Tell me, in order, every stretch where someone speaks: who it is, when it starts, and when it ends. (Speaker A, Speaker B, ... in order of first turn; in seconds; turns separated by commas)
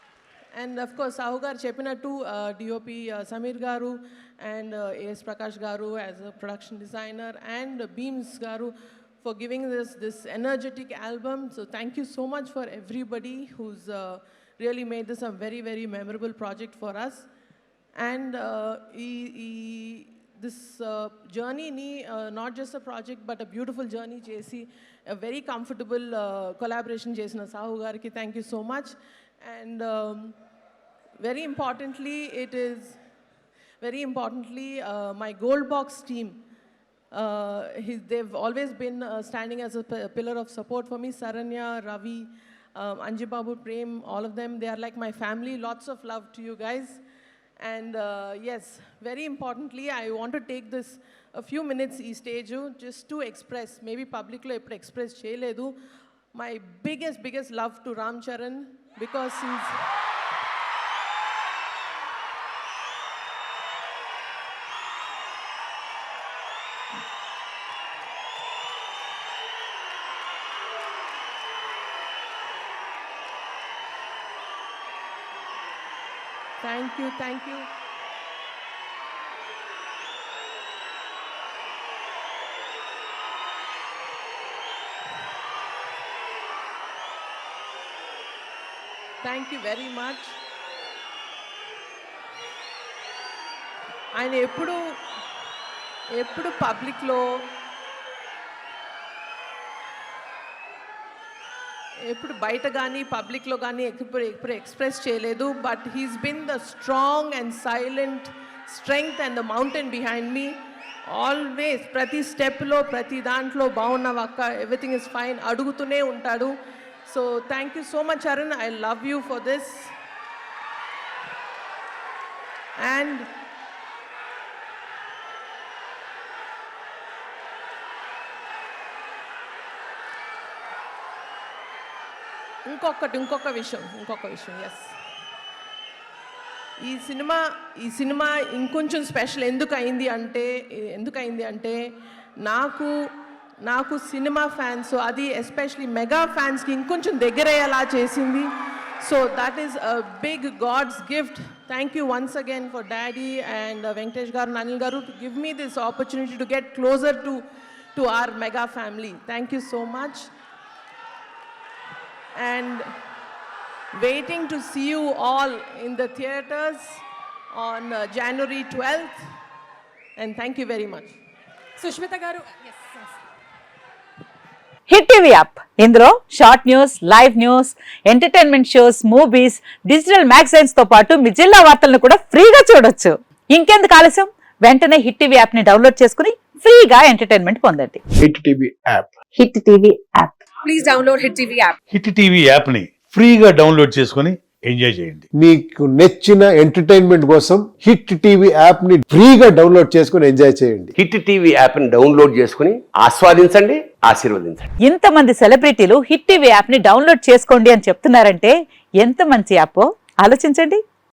Speaker A: 0.5-17.3, Speaker A: 17.9-30.4, Speaker A: 31.2-33.0, Speaker A: 33.8-36.4, Speaker A: 37.1-47.0, Speaker A: 47.6-55.8, Speaker A: 56.3-59.8, Speaker A: 76.6-77.7, Speaker A: 89.2-90.3, Speaker A: 94.1-94.8, Speaker A: 96.1-97.3, Speaker A: 102.0-119.9, Speaker A: 122.8-123.3, Speaker A: 132.7-134.9, Speaker A: 136.8-141.8, Speaker A: 142.4-142.9, Speaker A: 143.6-160.3, Speaker A: 162.3-162.9, Speaker A: 163.9-169.2, Speaker A: 170.2-171.1, Speaker B: 171.8-173.1, Speaker C: 174.9-188.0, Speaker D: 188.2-189.2, Speaker C: 189.4-190.3, Speaker B: 190.6-191.8, Speaker E: 191.9-195.3, Speaker D: 195.3-200.9, Speaker F: 200.9-204.7, Speaker C: 204.8-210.8